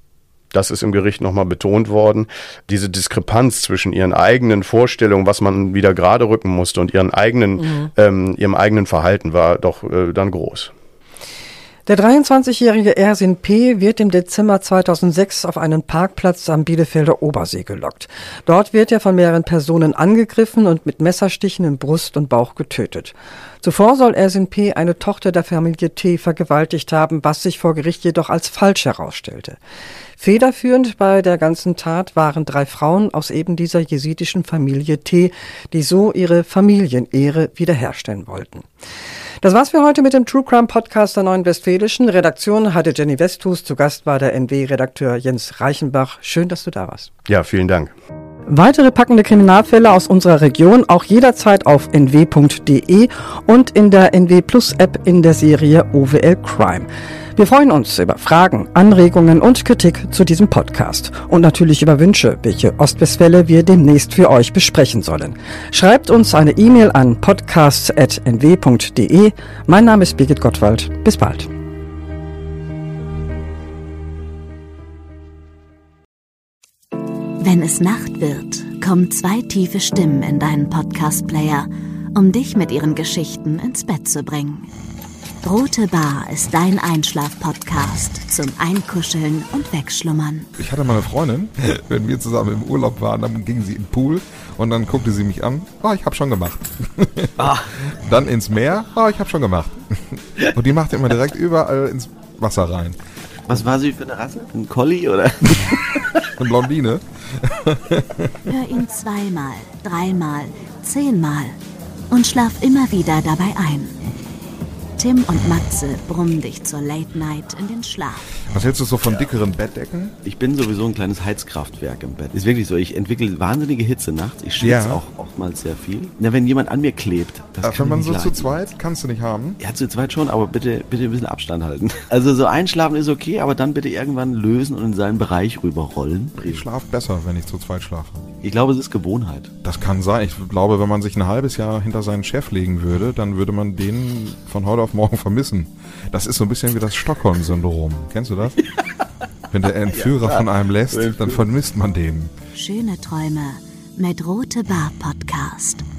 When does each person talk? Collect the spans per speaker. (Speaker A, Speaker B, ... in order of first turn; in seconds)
Speaker A: 0.5-10.7, 47.2-47.9
Speaker B: 11.8-29.6, 30.2-38.7, 39.4-47.1, 48.5-71.5
Speaker C: 77.4-84.7, 85.4-90.5, 108.5-111.6, 112.1-114.0, 115.0-118.3, 152.5-155.8
Speaker D: 90.6-103.0, 106.3-108.4, 118.5-120.1, 124.6-125.0, 127.6-129.6, 136.4-138.2, 139.6-148.6, 149.5-152.3
Speaker E: 103.5-106.0, 120.2-128.6, 129.6-136.6, 138.4-139.5, 149.9-151.3